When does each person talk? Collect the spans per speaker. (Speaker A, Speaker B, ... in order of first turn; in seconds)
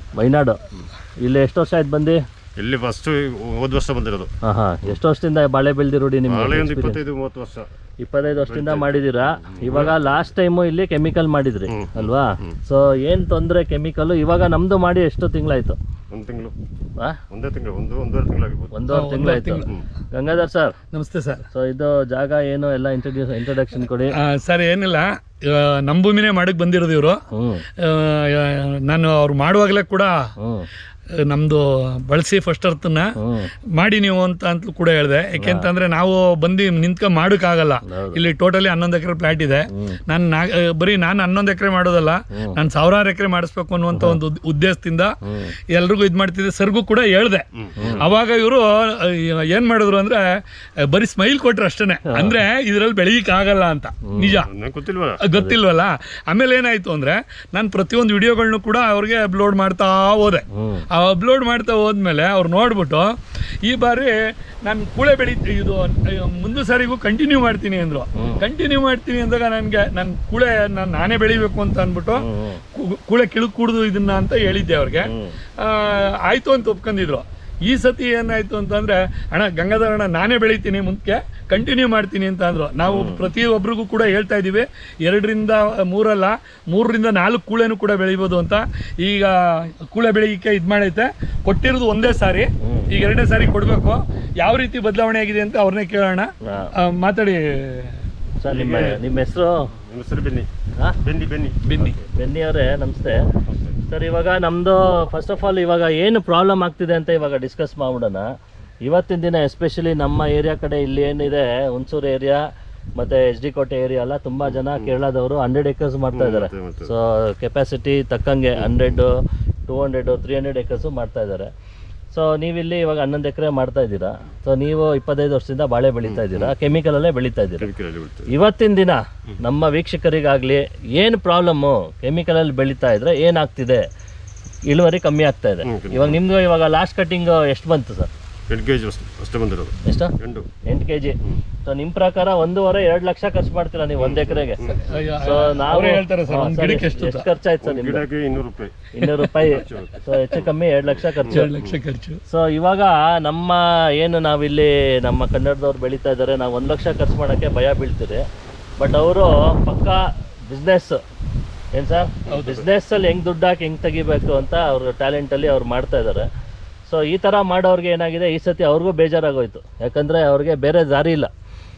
Speaker A: 0.2-0.6, 1.2-2.2, 4.4-7.0, 8.0-15.8, 18.7-20.8, 21.5-24.2, 27.3-27.7, 30.4-30.7, 33.2-33.5, 35.4-35.7, 37.8-38.2, 39.7-40.0, 42.3-42.6, 43.9-44.2, 45.3-45.5, 47.8-48.0, 52.1-52.3, 54.1-54.4, 60.5-60.9, 68.1-68.5, 72.1-72.6, 75.0-75.4, 82.9-83.2, 92.6-92.9, 96.4-96.7, 98.4-99.7, 101.8-103.3, 103.9-108.3, 108.8-112.5, 113.0-121.5, 122.1-127.7, 128.3-133.8, 134.7-138.1, 139.9-140.1, 140.7-148.1, 148.9-151.5, 152.3-158.2, 158.8-161.0, 161.7-166.3, 166.9-171.3
Speaker B: 2.6-4.3, 6.3-7.7, 8.4-10.2, 11.7-12.6, 16.1-16.5, 17.3-18.8, 47.6-48.1, 54.5-55.2, 98.5-99.0, 99.8-100.5, 101.0-101.8, 103.5-103.8, 114.6-114.9, 116.1-116.9, 126.0-126.5, 127.6-128.3, 135.6-136.2, 138.5-140.5, 144.0-144.9, 147.6-148.8, 149.4-150.4, 151.2-151.8
Speaker C: 18.9-19.7, 20.9-21.5, 24.1-27.2, 27.8-30.3, 31.2-33.2, 33.7-45.2, 45.7-47.5, 48.0-50.2, 50.8-54.5, 55.2-98.0, 101.6-102.0, 144.8-147.3, 149.0-149.3, 151.3-152.2, 162.3-162.6